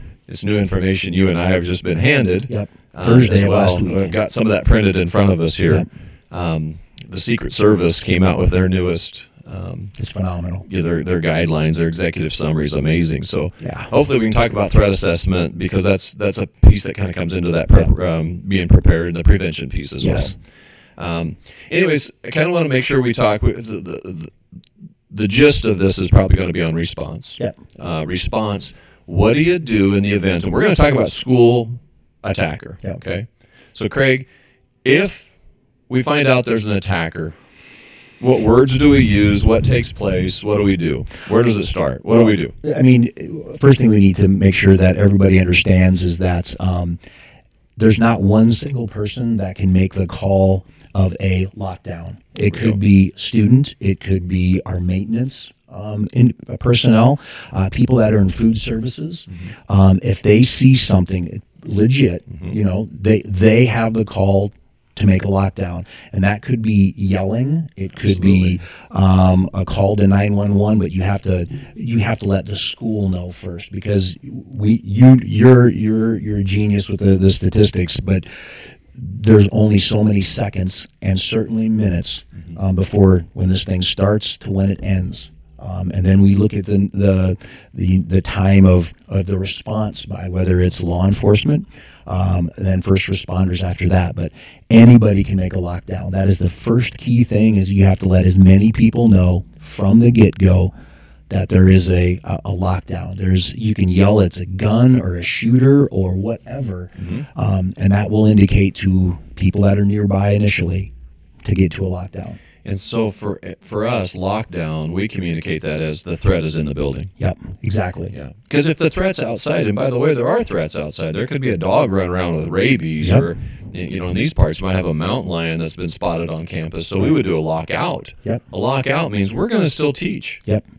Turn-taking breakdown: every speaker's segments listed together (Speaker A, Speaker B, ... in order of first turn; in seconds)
Speaker A: 0.3-10.0, 10.7-20.4, 21.0-24.4, 25.1-34.3, 34.8-35.3, 35.9-37.4, 38.2-42.5, 52.5-52.8, 67.9-68.6, 107.0-107.3, 112.6-117.1, 118.1-130.4
Speaker B: 2.5-4.2, 10.0-10.7, 13.6-13.9, 20.0-20.4, 42.1-47.0, 47.8-78.3, 78.9-100.7, 101.3-110.9, 111.4-112.4, 117.2-118.1